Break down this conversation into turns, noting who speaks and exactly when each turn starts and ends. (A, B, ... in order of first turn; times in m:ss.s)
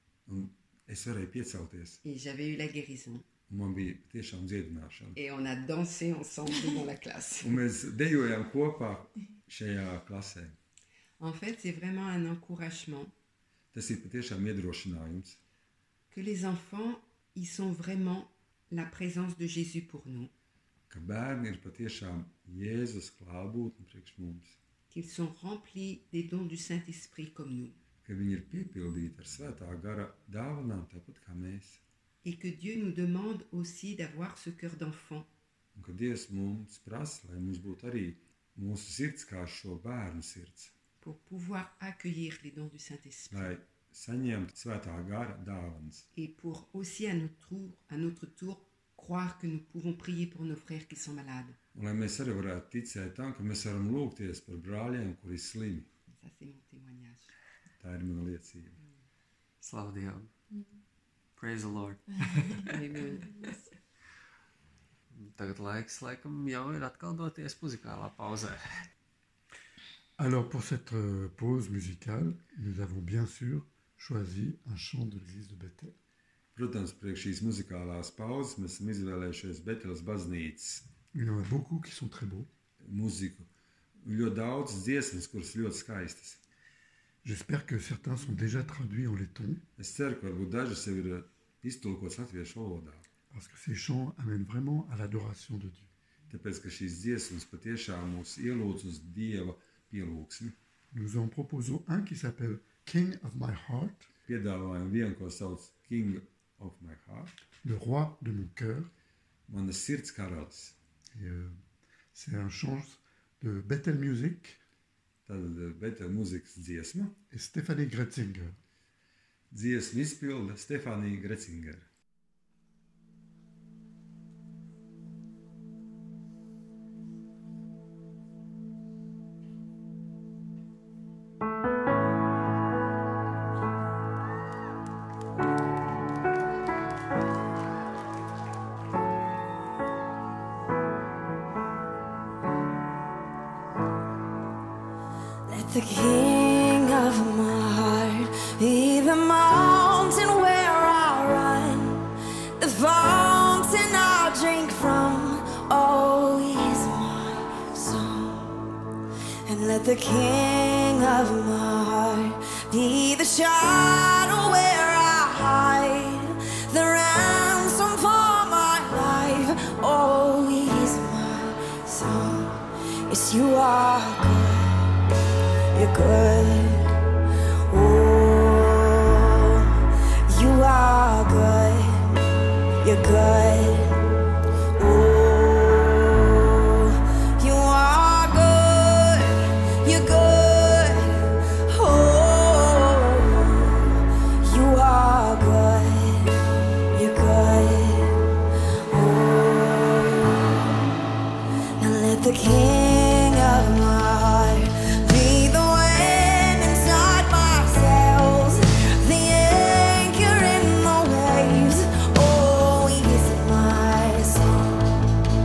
0:00.3-0:02.0 A
0:02.0-0:03.3 B
0:03.5-0:05.2 A
0:05.2-0:07.6 B
0:07.4-0:10.6 A
0:11.2-0:13.1 B
0:13.7-0:15.4 A
0:16.1-0:20.3 B
0:20.9-0:24.6 A
0:24.9-0:27.8 B
0:28.0-0:31.8 A
0:32.2-0:35.3 B
0:35.7-0:40.7 A
0:41.0-0:43.5 B
0:43.3-0:46.1 A
0:46.1-0:51.6 B
0:51.7-0:55.9 A
0:56.1-0:57.3 B
0:57.8-0:58.8 A
0:59.6-1:00.3 C
1:01.4-1:03.2 C
1:02.7-1:03.3 B
1:05.1-1:08.8 C
1:10.2-1:16.0 D
1:16.5-1:20.9 A
1:21.1-1:22.5 D
1:22.8-1:23.5 A
1:24.0-1:26.4 A
1:27.2-1:29.6 D
1:29.8-1:33.0 A
1:33.3-1:35.9 D
1:36.3-1:40.6 A
1:40.9-1:44.1 D
1:44.2-1:47.3 A
1:47.6-1:48.9 D
1:49.5-1:50.8 A
1:51.1-1:54.6 D
1:55.2-1:57.2 A
1:57.3-1:58.6 D
1:59.5-2:01.9 A
2:25.4-2:38.6 E
2:39.4-2:54.9 E
2:55.7-2:56.9 E
2:57.7-2:59.8 E
3:00.3-3:02.1 E
3:02.8-3:04.0 E
3:04.8-3:16.4 E
3:16.9-3:18.2 E
3:18.8-3:21.0 E
3:21.8-3:34.8 E